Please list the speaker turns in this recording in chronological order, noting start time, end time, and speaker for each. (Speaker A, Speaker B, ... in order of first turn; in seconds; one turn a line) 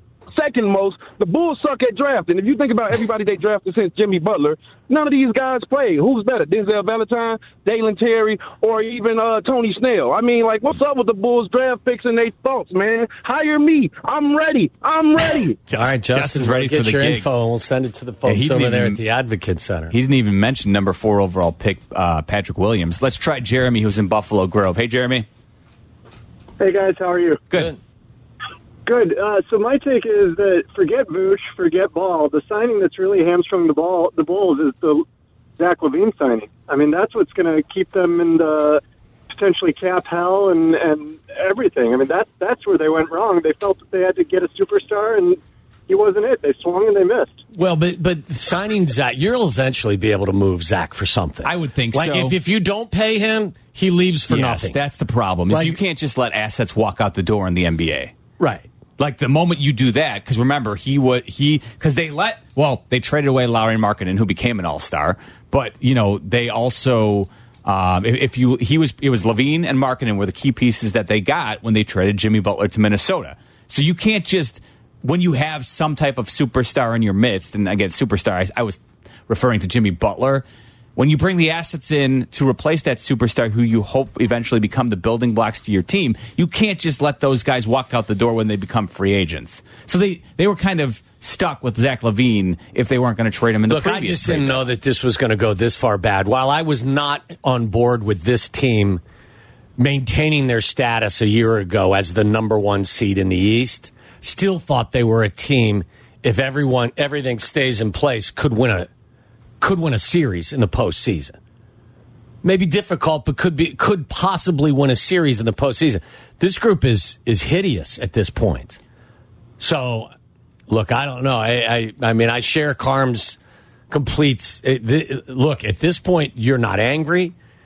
Speaker A: 0.3-15.6
Speaker B: 15.7-19.9
Speaker C: 15.8-17.3
Speaker C: 18.2-19.0
Speaker C: 19.9-25.3
Speaker D: 26.6-27.4
Speaker D: 28.9-35.0
Speaker D: 35.6-47.4
Speaker B: 47.5-54.8
Speaker C: 51.4-52.4
Speaker C: 54.3-58.1
Speaker B: 55.5-55.8
Speaker B: 58.4-58.7
Speaker C: 59.0-80.5
Speaker C: 81.0-94.7
Speaker B: 93.7-99.0
Speaker B: 99.8-108.9
Speaker B: 109.6-111.4
Speaker B: 112.4-118.8
Speaker B: 119.6-120.1
Speaker B: 120.7-123.4
Speaker B: 123.9-127.3